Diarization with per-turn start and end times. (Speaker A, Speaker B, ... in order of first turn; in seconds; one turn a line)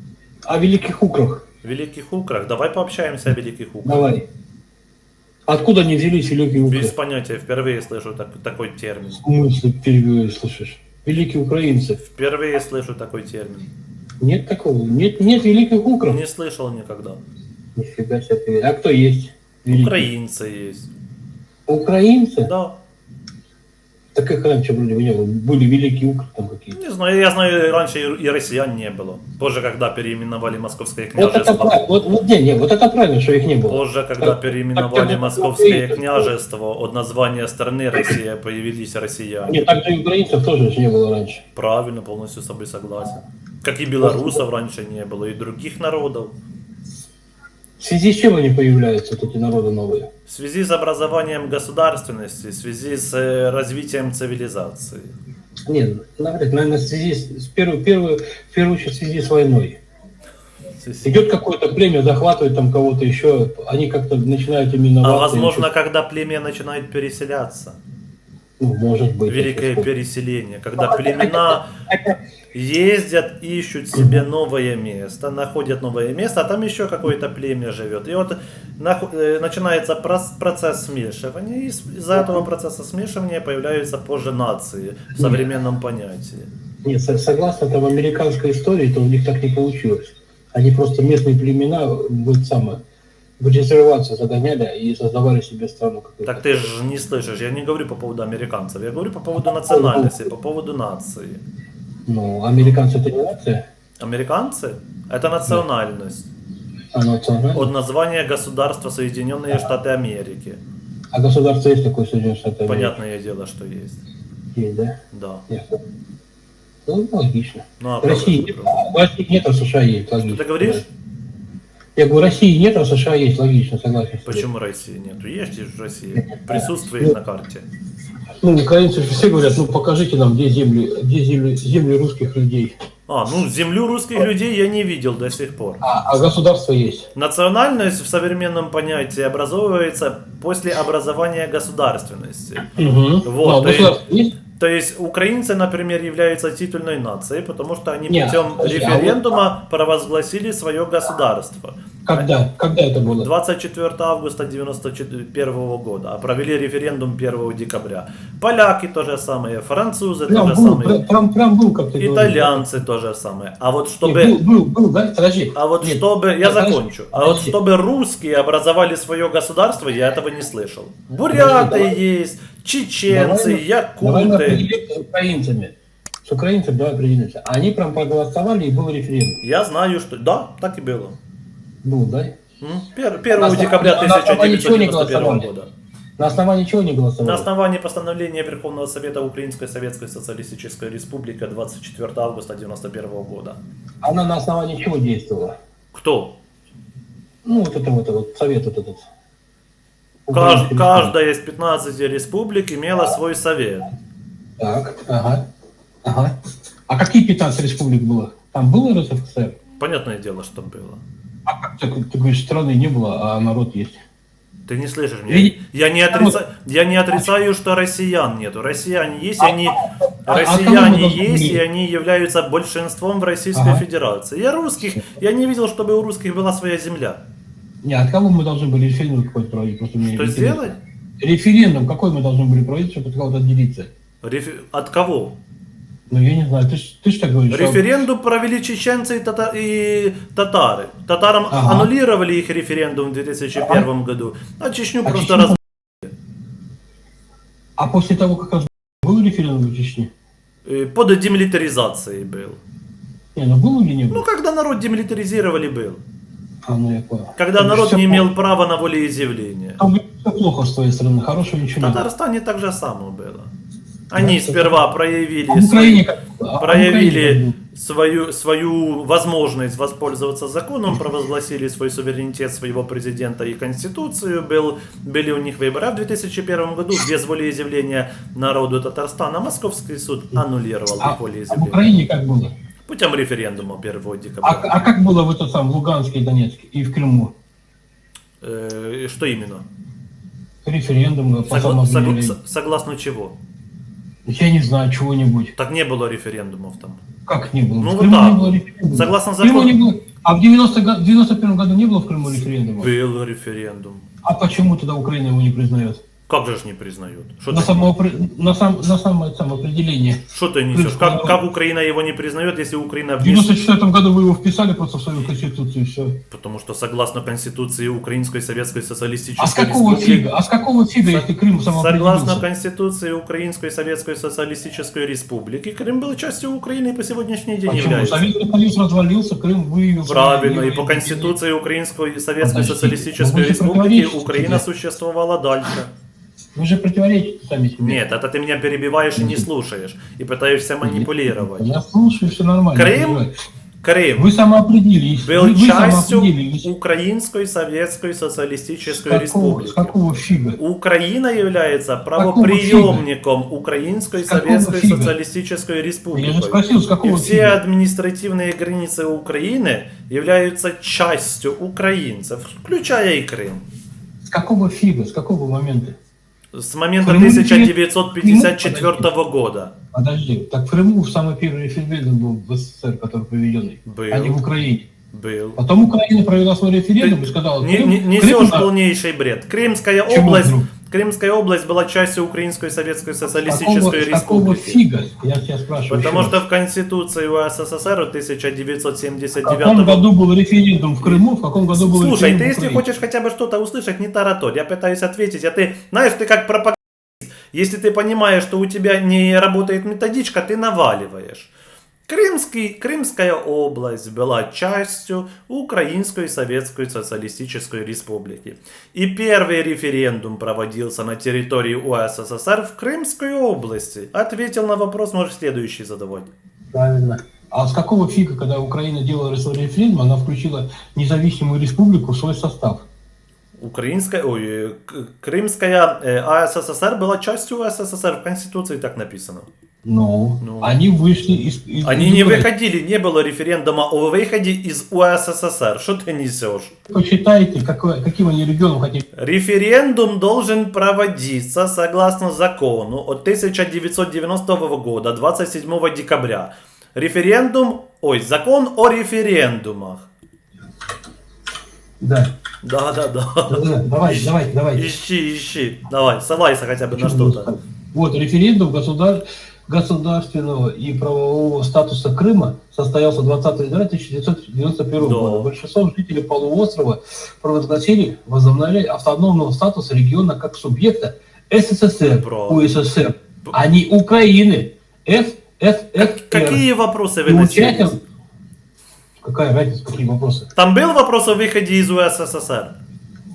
Speaker A: 0.5-1.4
Speaker B: 1.6-4.1
Speaker A: 3.8-4.2
Speaker A: 5.5-6.9
Speaker B: 6.7-9.2
Speaker A: 9.1-12.0
Speaker B: 12.0-13.7
Speaker A: 14.2-16.2
Speaker B: 16.1-17.2
Speaker A: 17.7-20.1
Speaker B: 19.7-20.9
Speaker A: 21.7-22.5
Speaker B: 22.4-22.8
Speaker A: 24.1-26.8
Speaker B: 26.8-31.8
Speaker A: 31.2-36.3
Speaker B: 33.7-39.6
Speaker A: 39.5-41.4
Speaker B: 41.5-46.3
Speaker A: 44.0-44.4
Speaker A: 47.8-50.1
Speaker B: 50.3-55.1
Speaker A: 55.7-59.8
Speaker B: 60.8-61.2
Speaker A: 61.0-65.7
Speaker B: 65.0-67.8
Speaker A: 68.6-69.9
Speaker B: 69.3-71.7
Speaker A: 70.8-72.2
Speaker B: 72.5-86.5
Speaker A: 73.9-74.2
Speaker A: 85.1-85.5
Speaker A: 86.8-92.8
Speaker A: 93.4-96.5
Speaker B: 96.2-101.4
Speaker A: 99.5-100.1
Speaker A: 102.0-103.6
Speaker B: 104.0-106.3
Speaker A: 106.9-107.7
Speaker B: 107.5-110.6
Speaker A: 111.1-113.0
Speaker B: 112.6-114.0
Speaker A: 114.5-115.0
Speaker B: 115.1-115.5
Speaker A: 115.5-115.8
Speaker A: 116.8-120.8
Speaker B: 117.8-118.8
Speaker B: 120.2-120.8
Speaker A: 122.0-124.5
Speaker B: 124.2-127.7
Speaker A: 126.2-127.2
Speaker A: 128.4-132.7
Speaker B: 133.1-135.8
Speaker A: 135.8-137.1
Speaker B: 137.1-142.7
Speaker A: 142.7-144.3
Speaker B: 143.2-144.0
Speaker B: 144.5-152.3
Speaker A: 148.1-149.4
Speaker A: 152.0-153.3
Speaker B: 153.1-161.0
Speaker A: 160.3-162.7
Speaker B: 162.0-164.4
Speaker A: 164.0-167.5
Speaker B: 165.5-174.7
Speaker A: 171.2-172.0
Speaker A: 173.1-179.4
Speaker B: 179.4-181.2
Speaker A: 181.8-182.3
Speaker B: 182.6-185.7
Speaker A: 183.3-185.5
Speaker A: 186.2-187.5
Speaker B: 187.2-193.6
Speaker A: 194.0-195.6
Speaker B: 195.9-196.4
Speaker A: 197.4-199.1
Speaker A: 200.2-201.1
Speaker B: 200.3-203.9
Speaker A: 204.6-205.4
Speaker A: 206.0-206.3
Speaker A: 206.9-209.6
Speaker B: 209.8-211.0
Speaker A: 211.4-214.0
Speaker B: 214.7-227.2
Speaker A: 215.3-215.6
Speaker A: 216.1-216.4
Speaker A: 219.4-221.6
Speaker A: 223.5-223.8
Speaker A: 227.8-233.9
Speaker B: 230.0-230.8
Speaker B: 234.2-235.4
Speaker A: 236.1-237.8
Speaker B: 237.5-246.1
Speaker A: 241.5-241.9
Speaker A: 243.6-243.8
Speaker A: 245.0-245.6
Speaker A: 247.8-250.1
Speaker B: 250.6-252.6
Speaker A: 253.3-254.2
Speaker B: 254.1-256.0
Speaker A: 256.6-258.2
Speaker B: 257.4-259.8
Speaker A: 259.8-262.1
Speaker B: 261.8-263.5
Speaker B: 264.1-266.0
Speaker A: 264.1-264.8
Speaker A: 265.5-267.5
Speaker B: 266.6-281.9
Speaker A: 281.0-282.5
Speaker B: 282.9-284.9
Speaker A: 284.4-287.3
Speaker B: 288.4-289.6
Speaker A: 290.6-292.4
Speaker B: 291.5-293.3
Speaker A: 294.2-295.5
Speaker B: 295.6-297.0
Speaker A: 297.3-302.9
Speaker B: 297.8-299.7
Speaker B: 302.8-304.1
Speaker A: 304.2-306.0
Speaker B: 306.3-307.8
Speaker A: 307.5-311.4
Speaker B: 310.3-313.7
Speaker A: 313.2-316.2
Speaker B: 316.3-320.3
Speaker A: 319.4-322.4
Speaker B: 321.0-328.3
Speaker A: 327.7-331.4
Speaker B: 330.1-335.9
Speaker A: 332.4-334.6
Speaker A: 336.5-338.0
Speaker B: 337.8-341.7
Speaker A: 339.1-339.5
Speaker A: 340.8-343.3
Speaker B: 342.7-343.2
Speaker B: 343.8-344.3
Speaker A: 344.2-346.7
Speaker B: 345.2-350.0
Speaker A: 348.8-350.6
Speaker B: 350.6-363.6
Speaker A: 352.1-353.0
Speaker A: 354.1-355.1
Speaker A: 356.1-357.6
Speaker A: 364.2-366.0
Speaker B: 366.5-369.7
Speaker A: 367.0-369.1
Speaker A: 369.9-374.9
Speaker B: 373.9-374.4
Speaker B: 375.1-375.6
Speaker A: 375.6-378.7
Speaker B: 377.0-384.8
Speaker A: 380.1-380.7
Speaker A: 383.4-386.4
Speaker B: 385.9-390.1
Speaker A: 389.4-392.9
Speaker B: 391.7-401.5
Speaker B: 402.1-416.3
Speaker A: 416.7-422.8
Speaker B: 423.6-429.5
Speaker A: 429.8-432.5
Speaker B: 430.4-430.8
Speaker B: 431.8-436.7
Speaker A: 436.9-439.0
Speaker B: 439.1-450.1
Speaker A: 452.0-452.3
Speaker B: 452.6-457.5
Speaker A: 453.5-454.9
Speaker A: 456.9-476.6
Speaker B: 465.0-465.5
Speaker B: 472.1-472.7
Speaker B: 476.0-478.0
Speaker A: 477.2-478.0
Speaker A: 479.2-480.5
Speaker B: 480.5-482.7